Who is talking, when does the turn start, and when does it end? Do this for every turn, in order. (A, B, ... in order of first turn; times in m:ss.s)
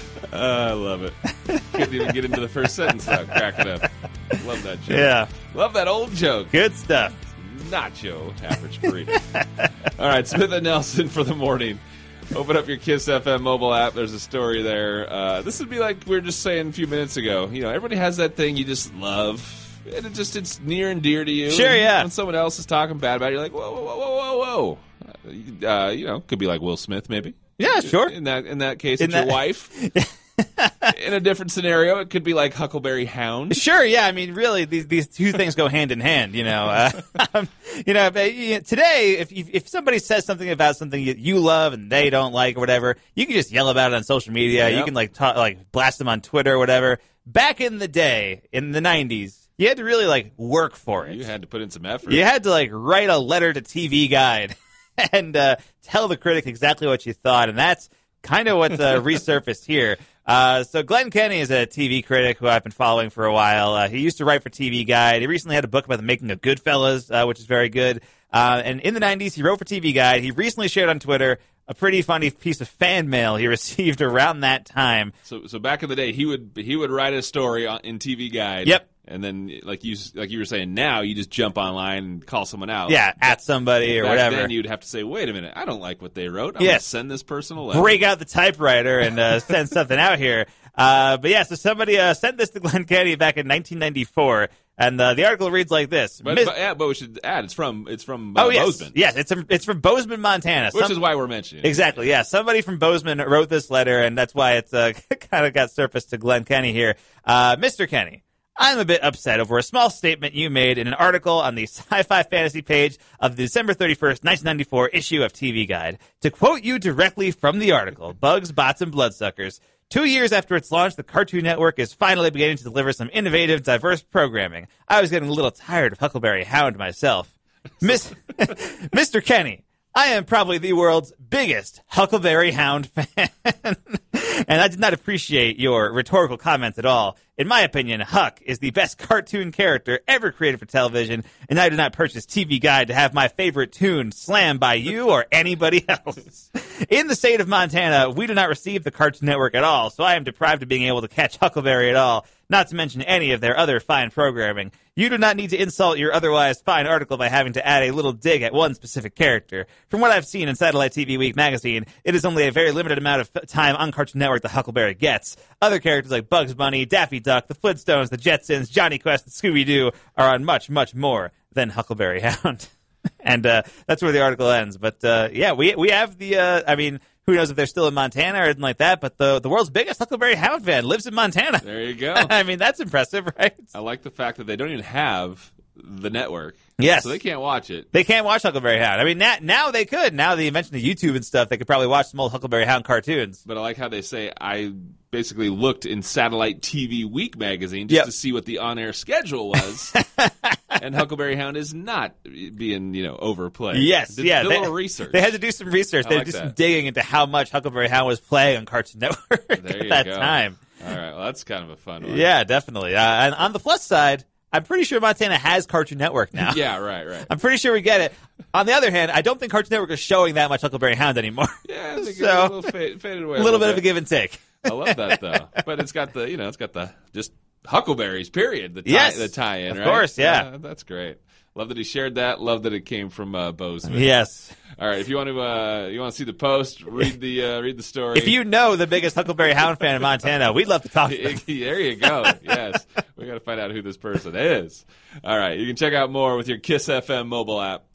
0:00.3-0:06.6 A
0:01.5-0:02.1 B
0:04.9-0:05.3 B
0:06.5-0:07.2 B
0:07.4-0:09.3 A
0:09.4-0:09.7 B
0:10.0-0:29.7 A
0:21.5-0:22.1 B
0:27.6-0:28.2 B
0:29.0-0:31.0 B
0:30.9-0:33.6 A
0:33.5-0:51.2 B
0:44.6-0:44.9 A
0:51.0-0:52.2 A
0:52.1-1:15.1 B
1:15.3-1:23.4 A
1:22.9-1:24.5 B
1:23.9-1:28.0 A
1:26.6-1:26.8 B
1:27.7-1:36.5 B
1:36.2-1:39.0 A
1:38.4-1:41.0 B
1:40.7-1:41.9 A
1:41.6-2:52.7 B
2:53.2-3:03.7 B
3:01.6-3:02.3 A
3:03.7-3:07.9 A
3:06.8-3:07.2 B
3:07.9-3:13.4 B
3:13.4-3:20.0 A
3:20.0-3:20.8 B
3:20.8-3:25.3 A
3:23.7-3:30.6 B
3:26.0-3:26.6 A
3:29.6-3:32.3 A
3:32.0-3:36.6 B
3:36.4-3:37.3 A
3:37.3-3:42.7 B
3:41.7-3:43.9 A
3:43.4-3:45.2 B
3:44.6-3:54.1 A
3:48.9-3:50.5 B
3:53.9-3:54.5 B
3:54.8-3:58.4 A
3:58.2-4:01.4 B
4:01.0-4:07.8 A